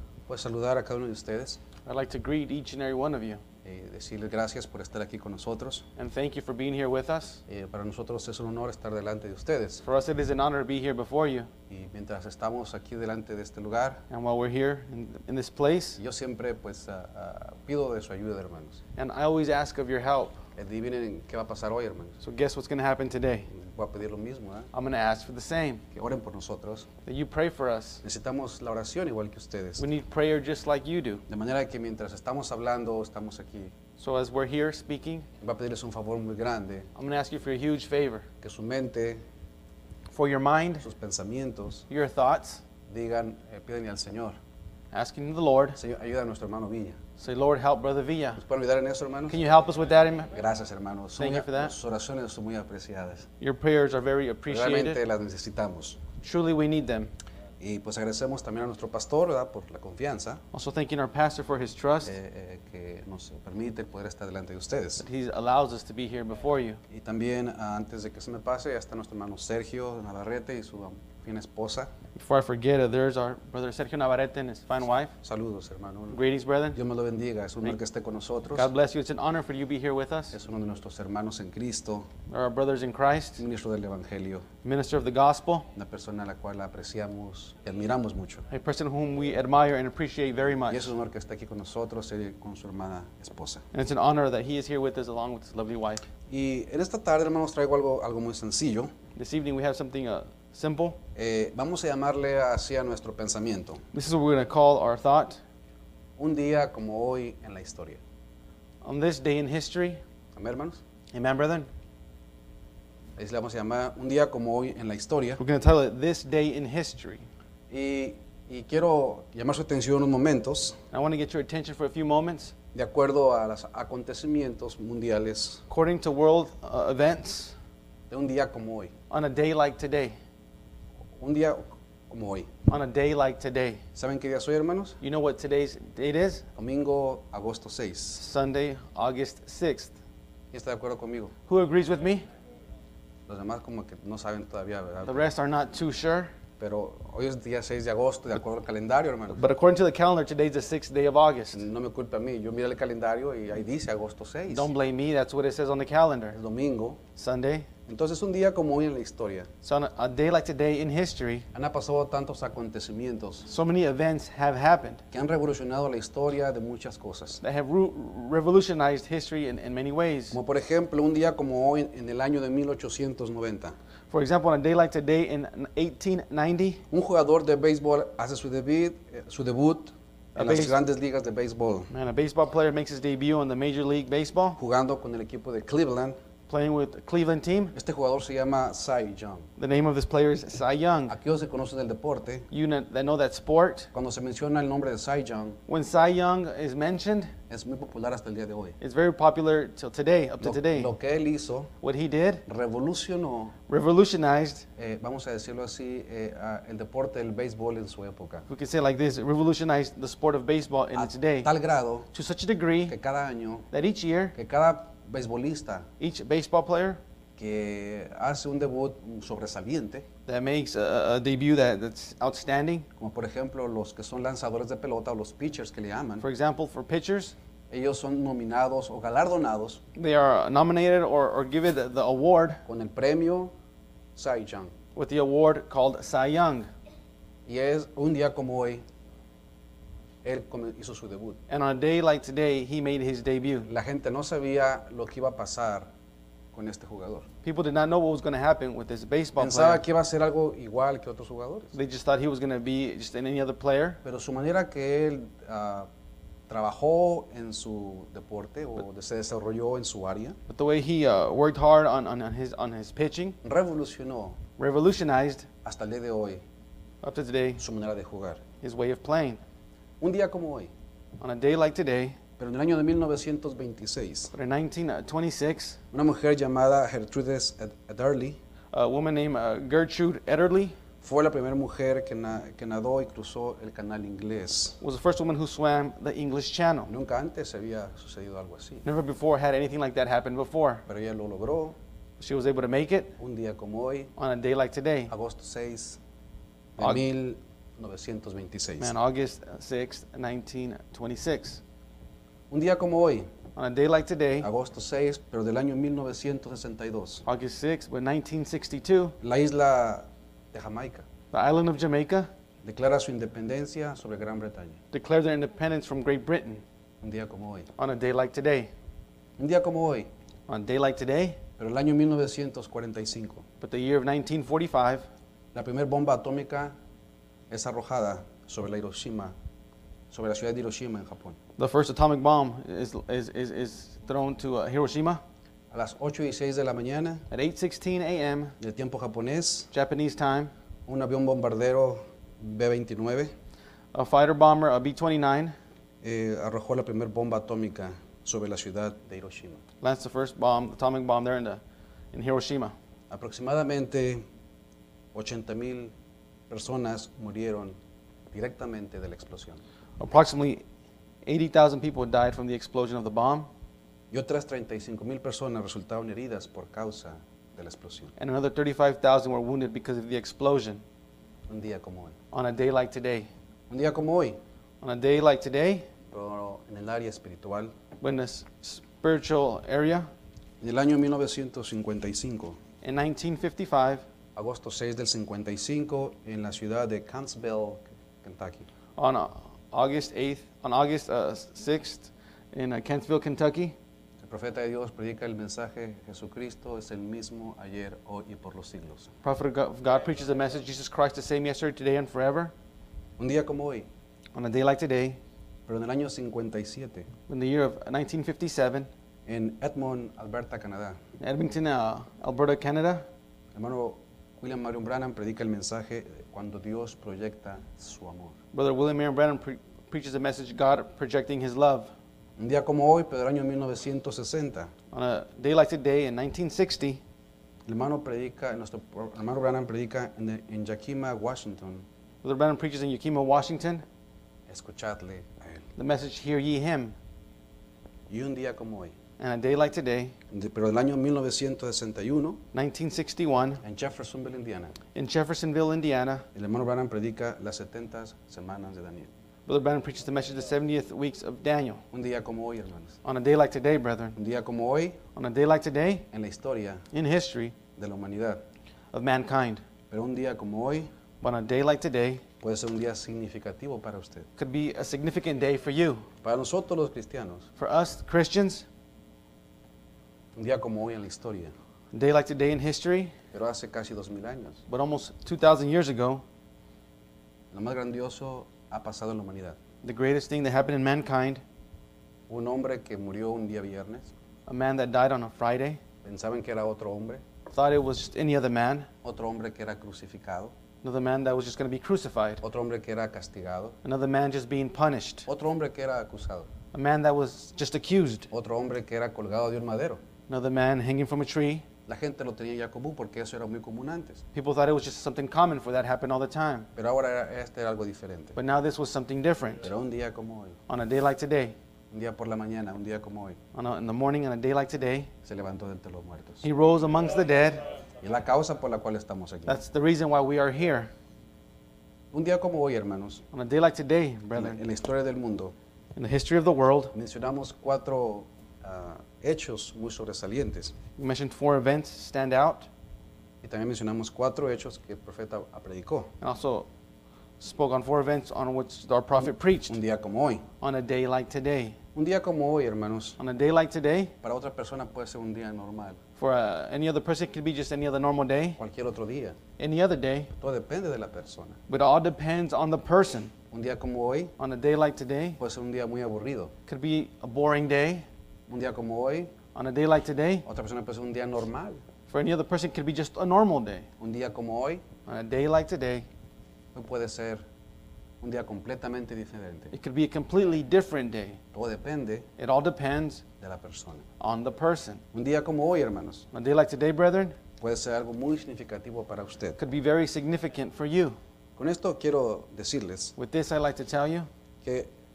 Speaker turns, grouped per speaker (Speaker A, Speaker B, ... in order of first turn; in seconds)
Speaker A: 0.3-1.6, 3.6-5.8, 7.5-9.8, 11.7-14.0, 16.0-18.8, 20.6-22.2, 23.5-24.7, 25.9-26.9, 28.0-29.9, 31.3-33.7, 35.4-36.9, 38.4-39.2, 40.8-41.8, 42.9-44.4, 45.7-47.0, 48.4-49.4, 50.3-53.3, 54.5-56.0, 57.6-60.4, 62.0-65.0, 66.9-71.9, 75.2-76.2, 76.7-78.7, 80.3-82.1, 83.4-84.4, 85.7-88.5, 90.7-93.6, 96.3-98.9, 101.2-103.8, 106.2-108.0, 110.3-110.8, 113.2-115.4, 117.7-120.8, 122.7-125.6, 128.1-128.9, 131.2-132.5, 133.9-135.0, 136.6-138.2, 140.5-141.3, 143.3-145.3, 146.6-149.4, 151.5-154.7, 156.3-157.0, 157.9-159.5, 161.5-163.5, 165.1-167.4, 170.3-173.8, 176.9-181.9, 184.6-186.2, 187.7-189.5, 191.1-192.5, 193.9-195.6, 197.5-198.8, 200.4-201.7, 202.5-203.5, 204.8-208.5, 210.9-212.1, 212.9-213.7, 214.3-215.9, 217.4-220.1, 223.0-226.2, 227.7-229.8, 232.7-233.5, 234.2-234.7, 237.5-238.8, 240.2-241.4, 243.7-245.9, 246.5-247.3, 249.4-251.7, 254.0-255.9, 256.5-260.4, 263.4-264.4, 265.6-266.4, 267.6-268.4, 270.0-270.7, 272.4-274.3, 275.9-278.4, 281.0-284.8, 286.9-288.9, 290.9-291.8, 293.2-294.1, 295.1-296.0, 296.8-298.9, 302.5-303.3, 304.4-307.2, 309.2-311.0, 312.6-314.8, 317.0-317.7, 319.4-320.1, 321.6-323.4, 325.5-326.7, 327.5-329.3, 330.1-331.4, 335.7-337.2, 338.6-339.7, 340.9-343.3, 346.0-349.6, 353.1-354.2, 355.1-355.9, 356.5-357.7, 358.3-359.6, 364.1-368.1, 371.5-372.1, 373.7-374.4, 376.1-377.7, 380.6-382.6, 384.3-388.6, 394.2-399.1, 403.2-403.9, 405.7-407.1, 409.3-411.0, 413.5-418.3, 422.4-424.7, 427.6-431.9, 434.5-435.6, 438.1-438.9, 440.3-442.4, 443.6-444.7, 446.3-449.1, 451.9-453.0, 454.1-455.0, 456.1-456.8, 457.8-458.4, 459.9-460.9, 462.4-464.3, 466.2-467.4, 470.3-471.5, 473.3-474.6, 477.5-479.6, 482.3-484.1, 486.0-487.2, 489.0-490.5, 492.4-493.8, 495.3-496.5, 498.3-500.0, 501.9-504.2, 506.8-508.4, 509.6-510.6, 511.9-513.4, 515.2-516.4, 518.0-519.6, 522.1-523.2, 524.3-525.5, 526.9-530.7, 533.4-536.1, 539.7-540.4, 541.9-543.2, 544.2-546.0, 548.6-549.4, 550.4-551.6, 553.5-554.3, 555.4-556.5, 558.5-559.3, 560.5-561.8, 564.0-564.8, 566.7-567.4, 568.2-569.7, 571.5-572.3, 573.4-574.0, 575.1-576.2, 577.6-579.6, 581.6-583.1
Speaker B: 1.9-3.4, 6.0-7.4, 9.8-11.5, 14.1-16.0, 18.9-20.4, 22.2-23.5, 24.7-25.8, 27.0-28.0, 29.8-31.2, 34.0-35.3, 37.0-38.2, 40.1-40.9, 41.9-42.6, 44.9-45.8, 47.2-48.4, 49.3-50.3, 51.2-51.7, 53.4-55.0, 56.2-57.1, 60.5-62.1, 65.0-66.8, 72.1-75.1, 76.1-76.8, 78.5-80.3, 82.3-83.4, 84.6-85.7, 88.5-90.9, 93.7-96.0, 99.2-101.0, 103.9-105.4, 108.8-110.0, 111.1-111.7, 115.4-117.2, 120.9-122.5, 125.7-127.5, 129.1-130.2, 132.7-133.8, 135.0-136.4, 138.1-139.9, 141.5-142.2, 145.0-146.3, 149.3-151.6, 154.5-156.4, 157.2-157.7, 159.6-161.4, 163.4-165.0, 167.4-170.4, 174.1-176.8, 180.4-180.8, 181.9-184.6, 186.5-187.7, 189.6-191.1, 192.5-193.9, 195.7-197.3, 198.8-200.9, 201.8-202.4, 203.7-204.6, 208.5-211.5, 212.1-212.9, 213.7-214.3, 216.0-217.0, 220.3-222.9, 226.2-227.3, 229.9-232.6, 234.9-236.7, 241.5-243.7, 247.4-249.8, 251.7-254.0, 260.5-263.4, 264.6-265.5, 267.0-267.6, 268.6-269.4, 271.2-272.1, 274.3-275.8, 278.7-280.7, 284.8-286.9, 288.8-290.8, 292.2-293.1, 294.2-295.1, 298.8-301.6, 303.6-304.5, 307.2-309.1, 311.3-312.3, 314.9-316.6, 317.8-318.7, 320.5-321.4, 323.6-325.0, 331.6-335.2, 337.3-338.5, 339.7-340.5, 343.9-345.5, 349.8-351.6, 352.1-352.7, 360.0-360.6, 361.2-363.5, 368.2-370.8, 372.3-373.3, 374.8-375.9, 378.0-380.1, 382.8-384.0, 389.0-393.7, 399.2-402.5, 404.3-405.2, 407.3-408.9, 411.2-413.0, 418.5-421.9, 424.9-427.0, 432.2-433.8, 435.8-436.9, 439.2-440.1, 442.5-443.6, 444.9-446.2, 449.5-451.8, 453.0-454.1, 455.1-456.0, 456.9-457.5, 458.9-459.6, 461.2-462.2, 464.4-466.0, 467.6-468.6, 471.9-473.1, 474.7-476.2, 479.8-481.4, 484.5-485.8, 487.5-488.9, 490.8-492.4, 493.8-495.3, 496.7-498.3, 500.3-501.6, 504.3-506.7, 508.4-509.7, 510.7-511.5, 513.5-515.1, 516.4-517.6, 519.5-520.9, 523.3-524.6, 526.0-526.9, 531.0-532.7, 536.2-536.7, 537.4-539.8, 540.6-541.8, 543.2-544.1, 546.2-548.6, 549.6-550.3, 551.7-553.3, 554.4-555.4, 556.7-558.0, 559.5-560.4, 562.1-563.9, 565.1-566.0, 569.7-571.4, 572.4-573.2, 574.2-575.0, 576.3-577.4, 579.6-581.2, 583.2-584.3